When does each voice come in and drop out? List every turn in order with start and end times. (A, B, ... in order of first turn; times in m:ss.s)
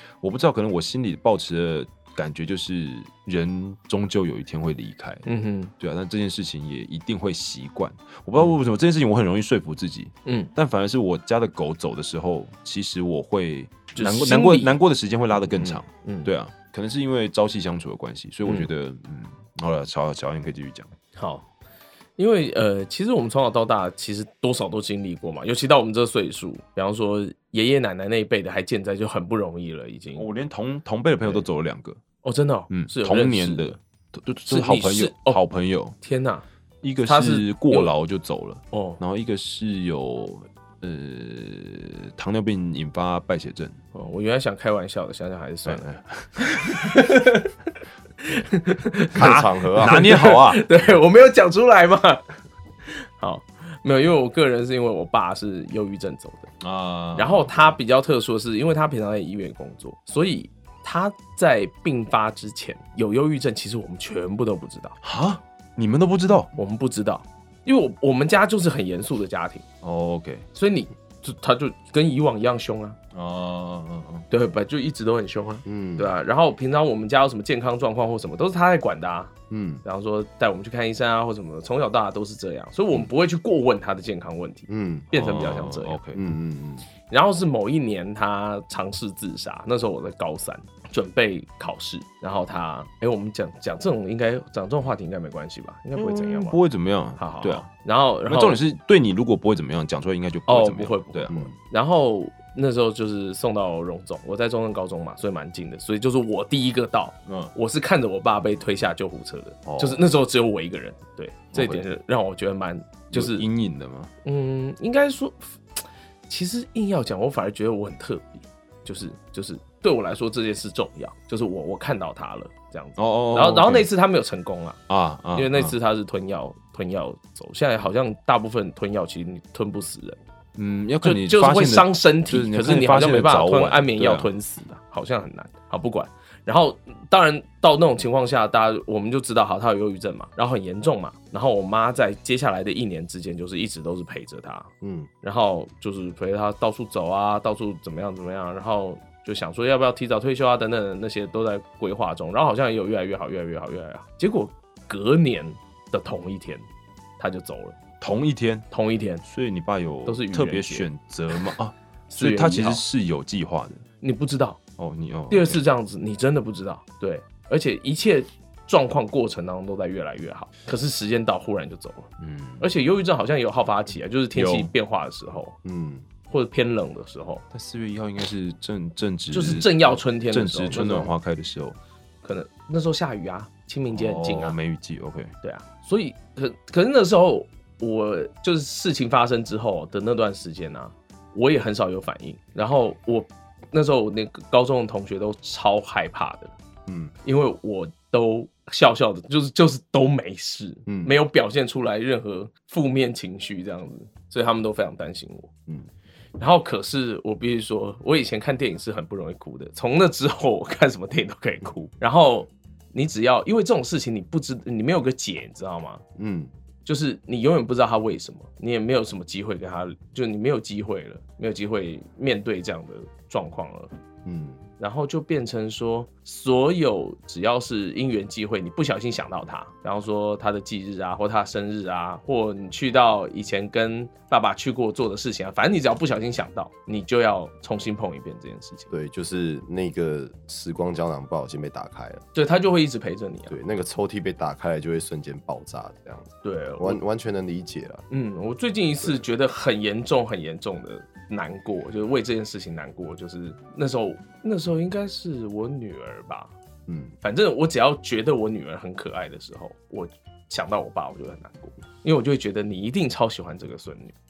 0:00.2-0:05.2 A
0:05.2-0:05.7 B
0:05.8-0:20.9 A
0:10.2-0:10.5 B
0:14.0-0:14.8 B
0:15.4-0:16.3 B
0:21.1-0:21.5 B
0:22.2-0:30.3 B
0:30.2-0:32.0 A
0:32.2-0:33.8 B
0:32.7-0:36.0 A
0:34.5-0:35.4 B
0:36.0-0:36.4 B
0:36.8-0:43.8 A
0:37.1-0:37.9 B
0:38.7-0:39.0 B
0:43.9-0:45.9 B
0:45.7-0:46.8 A
0:46.4-0:47.6 B
0:48.2-0:52.2 B
0:49.2-0:50.0 C
0:49.2-0:50.6 A
0:52.9-0:56.5 B
0:56.6-0:57.7 A
0:57.2-1:05.0 B
1:05.0-1:06.5 A
1:06.6-1:09.6 B
1:09.8-1:10.4 A
1:10.5-1:13.0 B
1:13.1-1:14.3 A
1:14.3-1:19.3 B
1:15.7-1:16.1 C
1:19.5-1:19.8 C
1:19.8-1:26.0 B
1:24.7-1:25.1 C
1:25.1-1:26.2 A
1:26.2-1:26.9 C
1:27.1-1:36.6 B
1:36.0-1:37.7 A
1:37.2-1:38.6 B
1:38.3-1:41.5 A
1:40.5-1:53.4 B
1:47.3-1:47.5 A
1:49.7-1:50.0 A
1:51.5-1:51.8 A
1:53.1-1:54.1 A
1:54.2-2:04.8 B
2:03.0-2:03.9 A
2:04.9-2:05.8 A
2:05.3-2:10.2 B
2:10.6-2:14.3 A
2:11.0-2:24.7 B
2:24.8-2:25.1 C
2:25.2-2:36.6 B
2:37.2-2:37.8 B
2:38.0-2:38.7 A
2:38.7-2:39.2 B
2:39.2-2:43.8 A
2:40.1-2:41.4 B
2:42.1-2:42.8 B
2:44.0-2:44.6 B
2:44.8-2:45.6 A
2:45.3-2:55.6 B
2:52.2-2:52.6 A
2:54.3-2:54.7 A
2:55.6-2:56.1 C
2:56.3-2:57.4 B
2:57.5-3:01.8 A
2:59.3-3:01.1 B
3:02.2-3:04.6 B
3:03.9-3:05.3 A
3:05.4-3:16.5 B
3:16.9-3:17.1 C
3:17.2-3:25.5 B
3:20.9-3:21.1 C
3:26.4-3:36.0 B
3:36.2-3:36.5 C
3:36.8-3:43.9 B
3:44.2-3:44.6 C
3:44.8-3:58.9 B
3:58.9-4:02.2 C
4:02.3-4:03.6 B
4:03.5-4:08.0 C
4:06.4-4:07.0 B
4:08.1-4:16.5 B
4:16.9-4:17.1 C
4:17.2-4:24.2 B